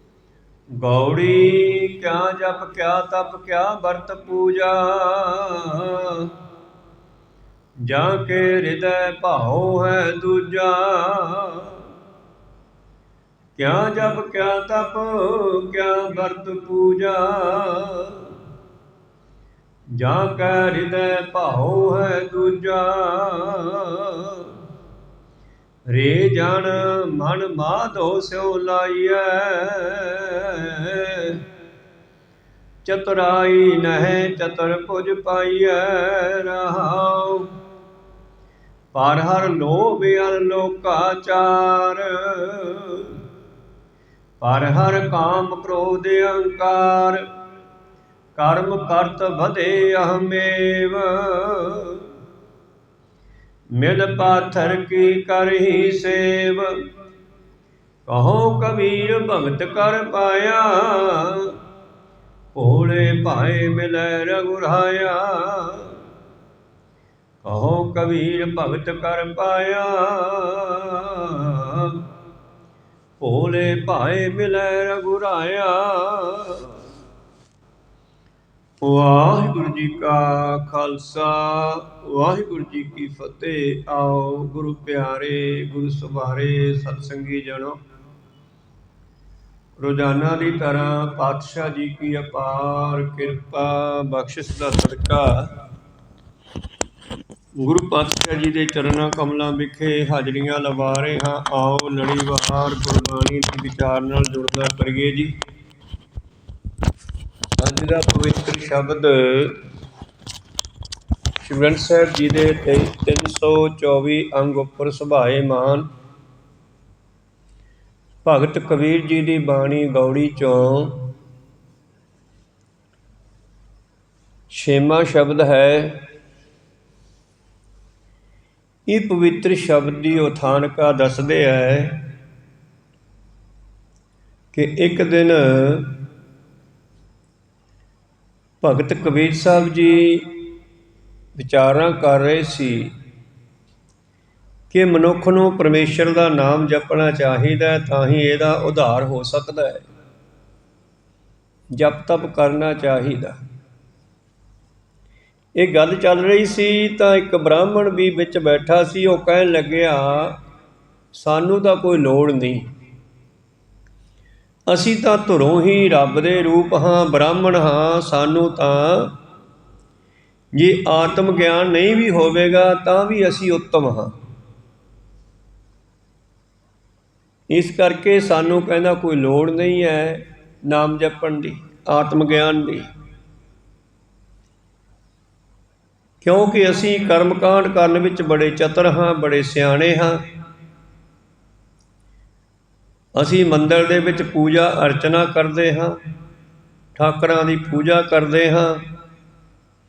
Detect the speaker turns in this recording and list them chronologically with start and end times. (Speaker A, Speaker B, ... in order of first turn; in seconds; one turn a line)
Speaker A: 0.8-6.3
Speaker A: 7.8-11.8
Speaker A: 13.6-18.3
Speaker A: 20.0-24.5
Speaker A: 25.9-31.4
Speaker A: 32.8-37.5
Speaker A: 38.9-43.2
Speaker A: 44.4-47.2
Speaker A: 48.4-52.0
Speaker A: 53.8-56.8
Speaker A: 58.1-61.5
Speaker A: 62.5-66.0
Speaker A: 67.4-72.0
Speaker A: 73.2-76.7
Speaker A: 78.8-87.8
Speaker A: 89.8-95.5
Speaker A: 97.6-105.3
Speaker A: 107.6-109.6
Speaker A: 111.4-115.9
Speaker A: 118.2-121.1
Speaker A: 124.5-126.0
Speaker A: 128.9-132.1
Speaker A: 134.5-136.0
Speaker A: 138.6-140.4
Speaker A: 141.4-142.9
Speaker A: 144.7-149.8
Speaker A: 151.7-153.4
Speaker A: 155.6-160.3
Speaker A: 161.1-162.6
Speaker A: 164.7-169.1
Speaker A: 170.5-174.1
Speaker A: 177.5-182.8
Speaker A: 186.2-190.2
Speaker A: 193.2-196.0
Speaker A: 196.9-198.8